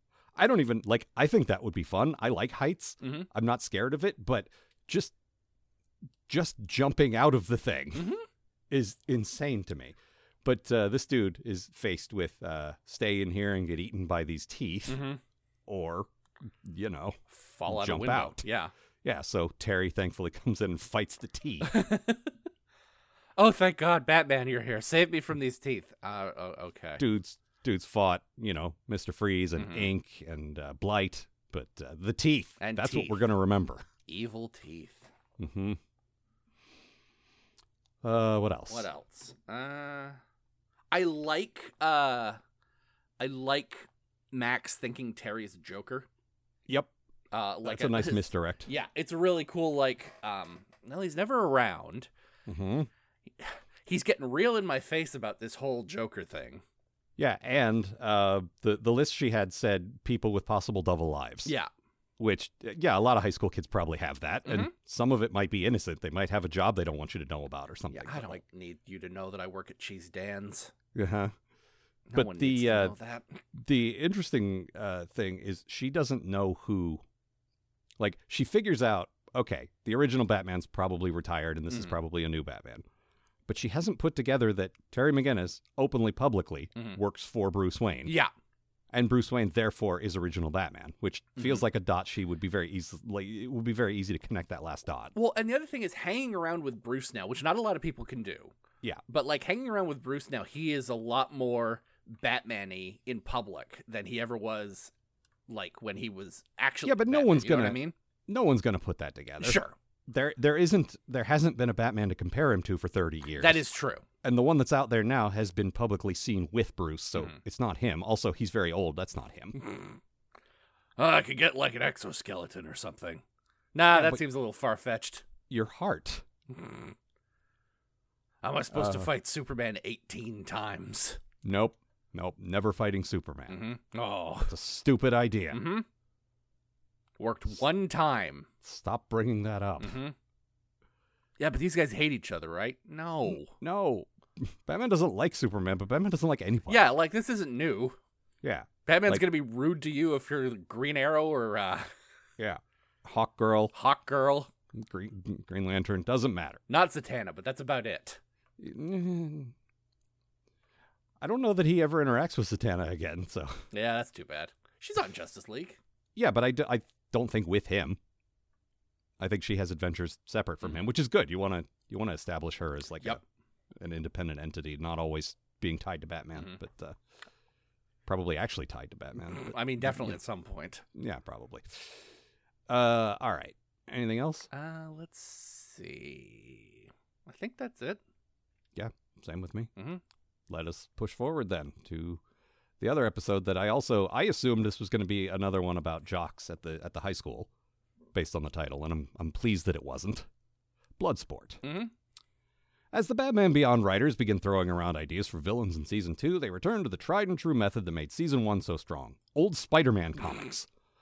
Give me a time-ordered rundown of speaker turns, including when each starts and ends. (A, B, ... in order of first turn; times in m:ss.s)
0:00.4-0:05.1 A
0:03.0-0:03.3 B
0:06.3-0:08.1 A
0:07.9-0:08.2 B
0:08.7-0:15.0 A
0:14.9-0:15.2 B
0:15.7-0:16.1 A
0:16.6-0:18.4 A
0:17.3-0:18.7 B
0:19.0-0:21.7 A
0:21.6-0:22.3 B
0:23.4-0:27.0 B
0:27.0-0:33.8 A
0:29.6-0:29.9 B
0:32.6-0:33.2 B
0:34.0-0:35.1 B
0:35.4-0:35.8 A
0:38.0-0:38.9 A
0:38.7-0:40.2 B
0:40.9-0:42.4 B
0:43.2-0:46.1 B
0:47.3-0:52.1 B
0:47.6-0:48.7 A
0:52.5-0:52.9 A
0:53.4-0:56.6 B
0:57.2-1:01.5 A
1:02.2-1:08.4 A
1:04.4-1:04.7 B
1:07.9-1:10.7 B
1:10.9-1:11.3 A
1:12.1-1:13.4 B
1:12.1-1:12.9 A
1:13.5-1:17.0 A
1:18.0-1:22.8 A
1:23.5-1:28.1 A
1:28.0-1:28.3 B
1:28.9-1:35.1 A
1:31.4-1:31.6 B
1:35.1-1:38.5 B
1:39.1-1:44.9 B
1:45.5-1:47.9 B
1:46.8-1:53.6 A
1:49.4-1:49.7 B
1:53.4-1:54.0 B
1:54.2-1:59.6 A
1:59.6-2:00.0 B
2:01.0-2:03.2 B
2:03.7-2:05.2 B
2:03.9-2:04.2 A
2:05.5-2:06.2 A
2:06.5-2:06.9 B
2:08.4-2:11.2 B
2:08.7-2:09.1 A
2:11.4-2:13.6 A
2:13.5-2:14.5 B
2:14.5-2:15.6 A
2:15.5-2:15.8 B
2:17.2-2:18.5 B
2:18.6-2:20.0 A
2:19.8-2:20.1 B
2:21.4-2:23.5 B
2:23.2-2:26.9 A
2:26.7-2:28.0 B
2:28.4-2:29.3 A
2:28.8-2:31.9 B
2:32.4-2:33.7 A
2:33.7-2:34.5 B
2:34.7-2:36.6 A
2:36.7-2:38.2 B
2:38.6-2:39.5 A
2:41.2-2:43.6 A
2:43.7-2:45.8 B
2:46.2-2:48.0 A
2:49.2-2:53.2 A
2:53.8-2:57.0 A
2:58.0-3:00.2 A
2:59.3-3:00.8 B
3:00.9-3:02.0 A
3:02.7-3:04.5 A
3:04.5-3:08.0 B
3:08.7-3:09.7 A
3:09.8-3:10.0 B
3:10.5-3:12.2 A
3:12.8-3:17.5 A
3:18.1-3:20.3 A
3:21.0-3:21.6 A
3:21.6-3:21.9 B
3:22.9-3:30.7 A